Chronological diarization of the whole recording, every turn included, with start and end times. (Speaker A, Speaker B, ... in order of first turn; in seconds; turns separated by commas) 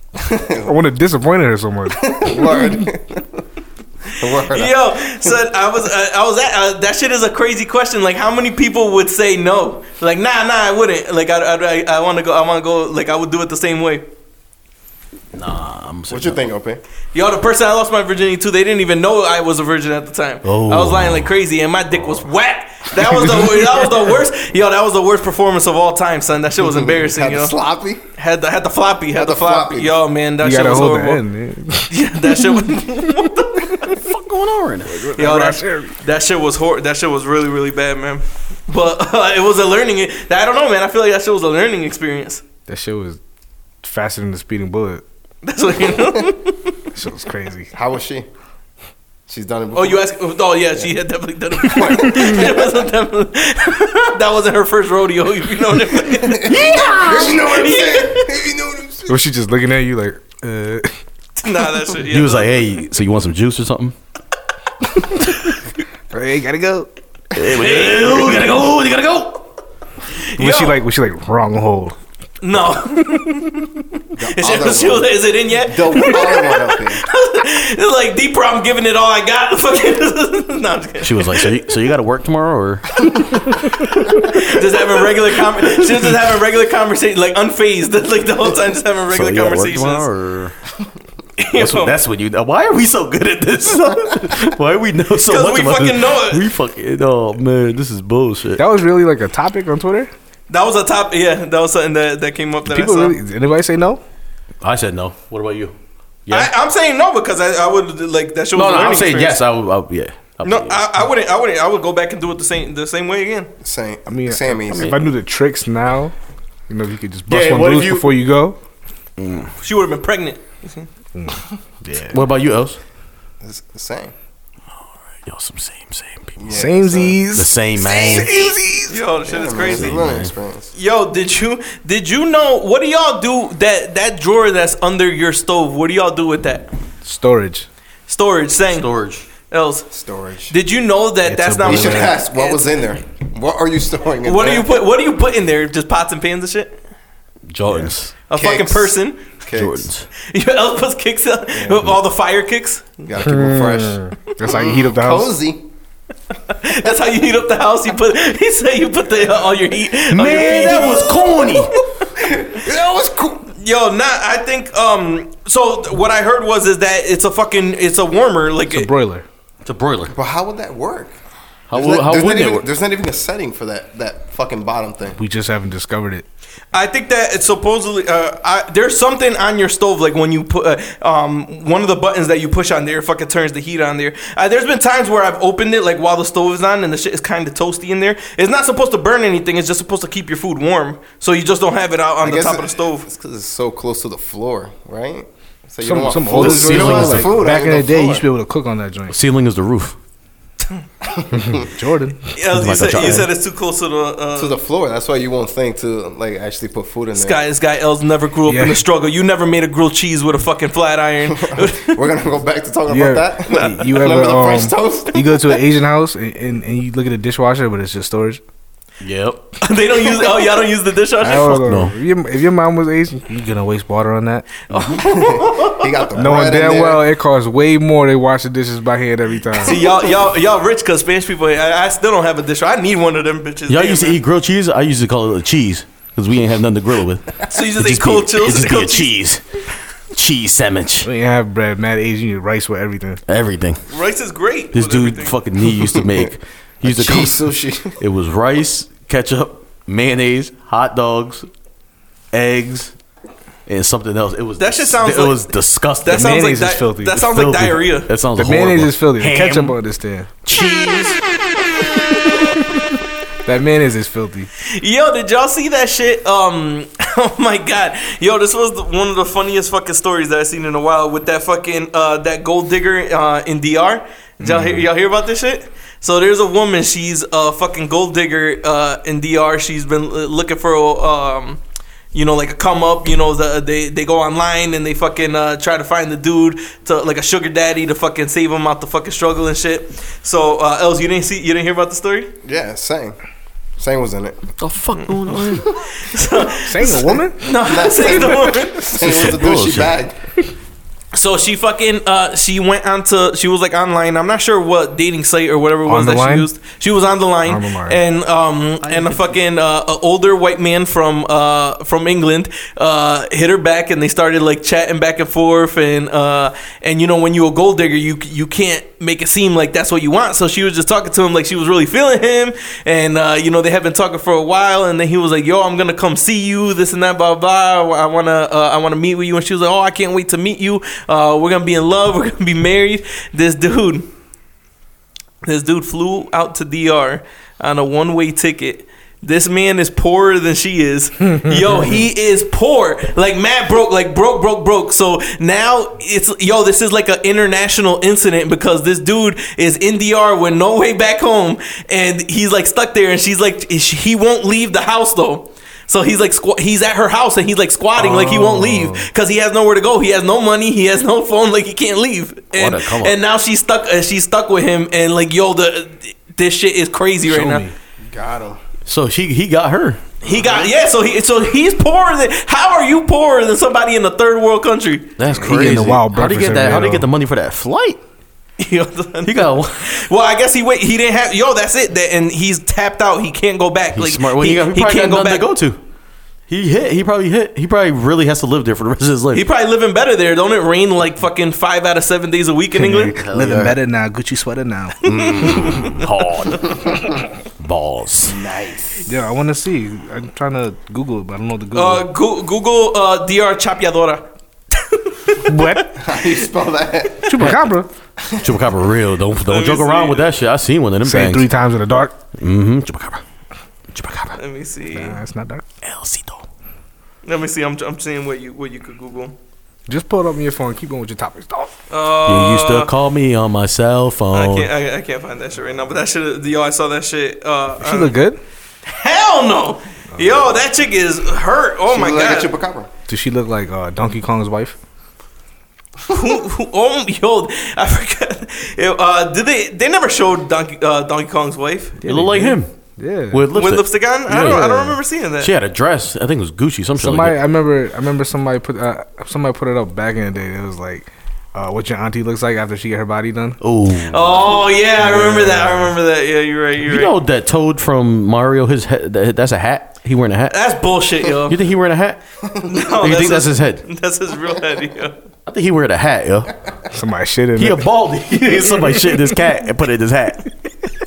Speaker A: 0.2-0.8, Speaker B: 0.6-2.9, Speaker A: 2.0-3.4, Speaker A: 4.1-5.3, Speaker C: 4.4-14.1, Speaker D: 15.3-16.4, Speaker A: 16.1-16.8, Speaker C: 17.1-27.5, Speaker D: 20.4-21.3, Speaker B: 23.0-23.9, Speaker A: 26.6-28.0, Speaker C: 28.2-31.2, Speaker A: 29.1-30.0, Speaker B: 30.4-32.9, Speaker C: 31.9-34.0, Speaker D: 33.9-35.1, Speaker B: 34.9-36.0, Speaker C: 35.1-42.4, Speaker B: 42.7-43.2, Speaker B: 43.8-45.0, Speaker C: 45.4-46.7, Speaker B: 46.9-47.7, Speaker A: 47.7-48.3, Speaker A: 49.3-50.1, Speaker C: 49.7-58.3, Speaker A: 51.6-52.7, Speaker A: 56.1-59.2, Speaker D: 56.5-57.9, Speaker B: 59.1-60.9, Speaker C: 61.4-62.6, Speaker D: 62.0-64.0, Speaker B: 66.1-66.9, Speaker D: 67.3-69.5, Speaker C: 67.5-68.6, Speaker C: 70.2-70.8, Speaker B: 70.4-72.0, Speaker C: 72.4-81.5, Speaker A: 74.2-77.1, Speaker D: 81.0-83.6, Speaker C: 83.1-90.1, Speaker D: 89.1-90.5, Speaker C: 91.4-92.0, Speaker D: 91.5-98.6, Speaker C: 95.3-96.5, Speaker B: 98.6-100.1, Speaker C: 100.5-103.2, Speaker B: 102.7-104.0, Speaker D: 104.6-105.8, Speaker D: 106.3-106.5, Speaker C: 106.3-109.4, Speaker D: 108.5-110.9, Speaker C: 110.4-113.5, Speaker A: 113.6-115.0, Speaker B: 114.1-116.1, Speaker B: 116.7-118.6, Speaker D: 117.3-118.1, Speaker D: 119.2-119.5, Speaker C: 119.6-120.9, Speaker B: 121.2-122.2, Speaker D: 122.0-122.8, Speaker A: 123.4-124.1, Speaker D: 125.2-126.4, Speaker A: 126.4-127.2, Speaker B: 126.5-129.0, Speaker D: 127.3-128.4, Speaker A: 127.8-128.5, Speaker C: 128.9-130.0, Speaker A: 129.3-130.7, Speaker D: 129.7-130.3, Speaker C: 130.7-136.7, Speaker B: 137.0-137.7, Speaker C: 138.1-138.9, Speaker D: 138.7-139.2, Speaker C: 139.5-139.9, Speaker A: 139.9-140.6, Speaker C: 140.5-142.7, Speaker B: 141.3-142.1, Speaker A: 141.7-144.7, Speaker C: 144.2-146.8, Speaker D: 147.5-148.1, Speaker C: 148.3-149.2, Speaker A: 148.3-149.9, Speaker D: 149.5-150.1, Speaker C: 150.2-153.0, Speaker A: 151.5-151.9, Speaker A: 153.1-155.6, Speaker B: 153.2-155.3, Speaker C: 156.5-161.6, Speaker D: 160.1-161.8, Speaker A: 160.5-163.5, Speaker C: 163.6-168.9, Speaker B: 168.7-169.3, Speaker D: 169.6-170.1, Speaker A: 170.1-171.2, Speaker D: 171.7-172.7, Speaker A: 171.7-175.2, Speaker B: 175.2-176.2, Speaker C: 176.7-193.1, Speaker A: 192.2-198.2, Speaker B: 195.8-199.2, Speaker D: 196.3-197.3, Speaker D: 199.1-200.0, Speaker A: 201.1-201.7, Speaker B: 201.3-202.3, Speaker C: 202.3-204.6, Speaker D: 202.5-203.3, Speaker A: 204.4-207.4, Speaker C: 207.2-212.0, Speaker B: 208.5-208.8, Speaker A: 211.4-215.6, Speaker B: 212.9-218.4, Speaker C: 213.5-213.9, Speaker D: 219.0-219.6, Speaker C: 219.6-221.7, Speaker B: 221.2-224.5, Speaker D: 221.6-221.9, Speaker C: 224.7-225.9, Speaker A: 225.0-227.0, Speaker B: 226.2-229.8, Speaker C: 229.6-234.2, Speaker D: 233.7-239.4, Speaker C: 237.5-239.1, Speaker D: 240.1-241.1, Speaker B: 241.0-243.2, Speaker D: 243.3-243.8, Speaker C: 243.9-245.4, Speaker D: 244.7-251.5, Speaker A: 245.8-246.3, Speaker A: 246.8-248.0, Speaker D: 252.3-252.9, Speaker D: 253.7-259.8, Speaker C: 254.6-255.5, Speaker C: 256.0-258.1, Speaker B: 256.1-257.2, Speaker B: 258.4-260.3, Speaker D: 260.4-261.2, Speaker B: 263.4-264.5, Speaker C: 264.6-281.6, Speaker B: 274.4-274.9, Speaker C: 282.1-292.3, Speaker A: 292.4-293.2, Speaker A: 293.8-294.5, Speaker D: 294.6-295.8, Speaker C: 295.3-299.0, Speaker B: 296.5-297.5, Speaker A: 297.5-300.1, Speaker D: 298.9-300.0, Speaker C: 301.1-334.1, Speaker B: 305.9-306.5, Speaker B: 307.5-308.0, Speaker D: 308.8-309.4, Speaker C: 335.4-367.7, Speaker B: 358.0-359.1, Speaker D: 362.6-363.2, Speaker B: 367.2-367.7, Speaker A: 368.1-368.6, Speaker D: 368.9-370.0, Speaker C: 370.2-375.1, Speaker A: 370.3-370.7, Speaker D: 375.2-378.0, Speaker B: 375.3-377.1, Speaker C: 378.6-385.5, Speaker D: 379.2-379.9, Speaker D: 383.9-385.8, Speaker D: 386.5-389.4, Speaker C: 389.3-393.2, Speaker B: 392.8-395.7, Speaker D: 393.1-393.8, Speaker D: 395.0-398.4, Speaker C: 395.1-396.1, Speaker A: 398.3-399.1, Speaker B: 399.1-402.1, Speaker C: 401.7-406.4, Speaker B: 405.4-406.0, Speaker A: 406.0-407.3, Speaker B: 407.2-407.9, Speaker D: 407.4-407.7, Speaker A: 408.2-408.5, Speaker D: 408.4-411.5, Speaker C: 409.5-410.4, Speaker B: 411.0-412.2, Speaker D: 412.4-413.2, Speaker D: 413.9-414.4, Speaker C: 414.4-415.2, Speaker B: 414.9-415.6, Speaker D: 415.8-416.4, Speaker C: 417.2-419.4, Speaker B: 419.9-421.8, Speaker C: 421.9-422.9, Speaker D: 422.3-424.7, Speaker C: 424.3-428.1, Speaker B: 427.8-428.4, Speaker C: 428.9-432.5, Speaker B: 430.1-430.4, Speaker A: 431.9-432.9, Speaker B: 433.1-434.8, Speaker C: 436.1-442.0, Speaker B: 442.0-443.5, Speaker D: 442.1-442.7, Speaker D: 443.3-447.4, Speaker C: 443.5-445.5, Speaker B: 444.4-444.9, Speaker B: 447.0-453.6, Speaker D: 453.6-454.6, Speaker C: 454.0-457.1, Speaker B: 455.0-455.9, Speaker D: 456.8-460.6, Speaker C: 460.5-461.6, Speaker D: 461.5-462.2, Speaker C: 462.6-465.1, Speaker D: 462.9-463.8, Speaker D: 465.5-466.5, Speaker B: 466.9-467.9, Speaker D: 467.6-470.5, Speaker B: 468.8-469.2